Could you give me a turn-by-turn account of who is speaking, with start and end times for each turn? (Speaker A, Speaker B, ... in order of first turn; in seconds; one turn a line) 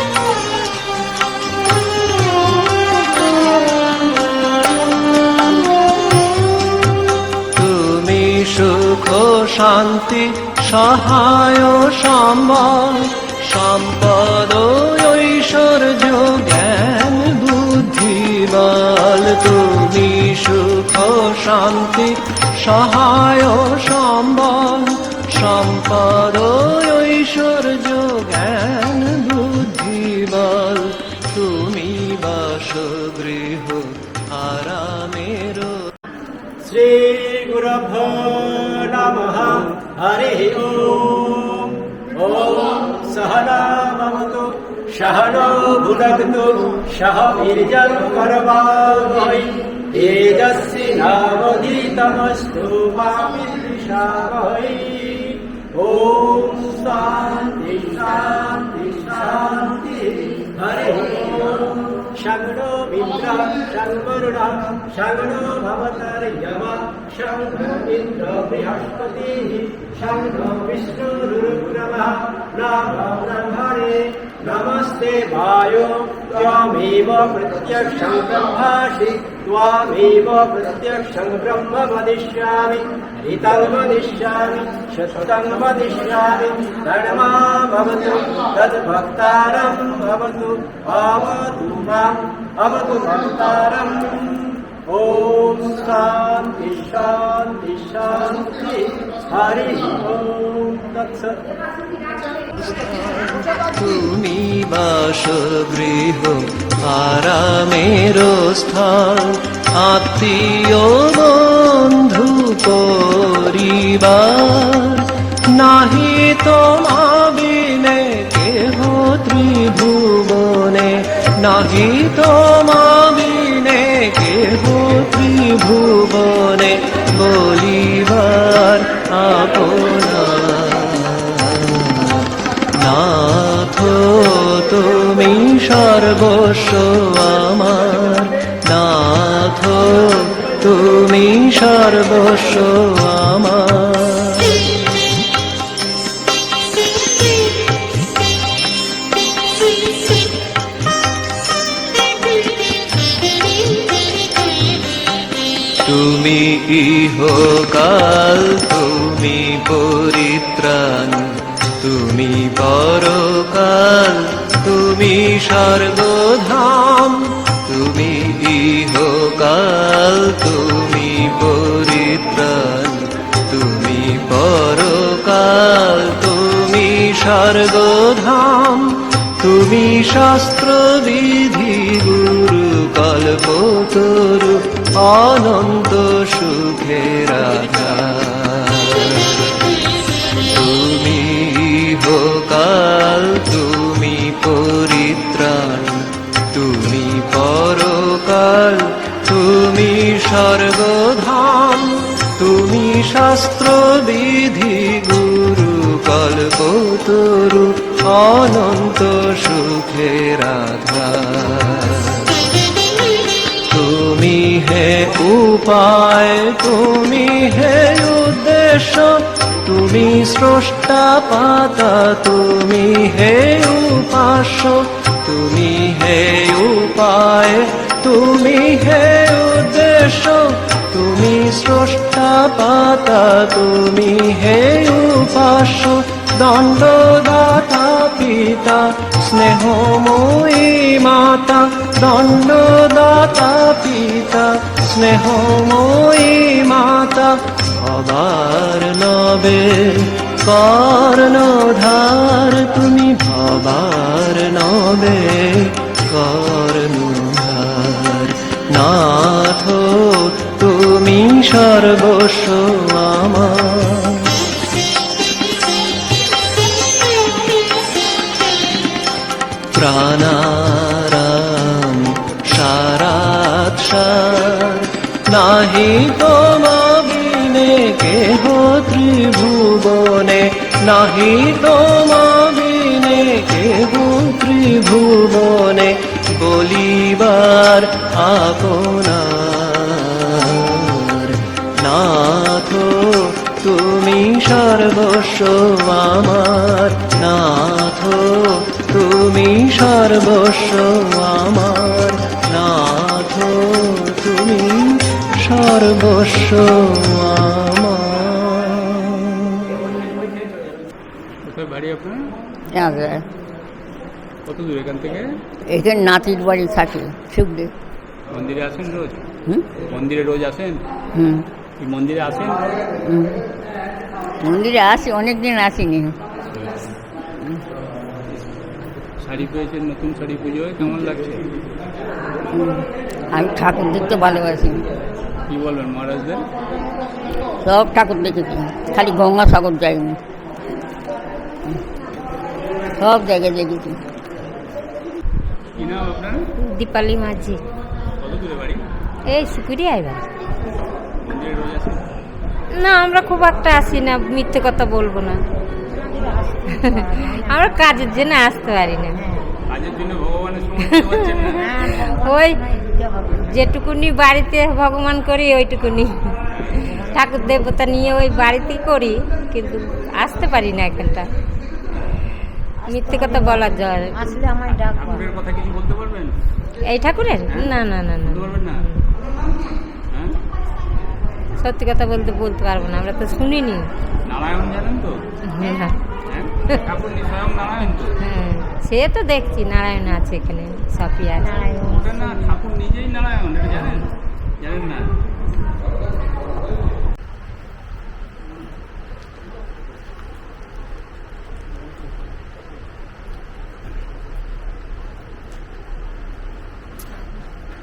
Speaker A: 7.5-35.8
Speaker B: 36.6-101.5
Speaker A: 102.6-144.8
Speaker A: 155.8-189.6
Speaker A: 190.4-212.4
Speaker A: 213.7-264.4
Speaker A: 269.7-309.8
Speaker C: 311.4-312.3
Speaker D: 312.7-313.2
Speaker C: 314.5-315.3
Speaker D: 315.7-317.7
Speaker C: 318.3-319.2
Speaker C: 319.8-320.8
Speaker D: 321.1-321.4
Speaker C: 321.8-322.8
Speaker D: 323.0-323.4
Speaker D: 324.4-326.2
Speaker C: 329.2-331.5
Speaker D: 332.5-334.8
Speaker C: 335.5-336.5
Speaker D: 337.6-340.2
Speaker D: 343.0-344.0
Speaker C: 345.8-347.4
Speaker E: 346.7-347.6
Speaker C: 348.2-348.8
Speaker E: 349.3-350.2
Speaker C: 351.2-352.0
Speaker E: 352.8-355.4
Speaker C: 353.1-353.8
Speaker C: 356.2-358.3
Speaker E: 357.5-359.1
Speaker C: 359.7-363.9
Speaker E: 362.0-362.6
Speaker E: 363.5-366.1
Speaker E: 366.8-371.2
Speaker C: 366.9-368.4
Speaker C: 372.9-376.3
Speaker E: 372.9-374.2
Speaker E: 376.9-377.6
Speaker C: 377.0-378.9
Speaker E: 381.6-383.8
Speaker C: 382.2-382.9
Speaker C: 384.3-388.7
Speaker E: 385.5-386.0
Speaker E: 388.3-391.6
Speaker C: 391.4-394.1
Speaker C: 394.6-395.1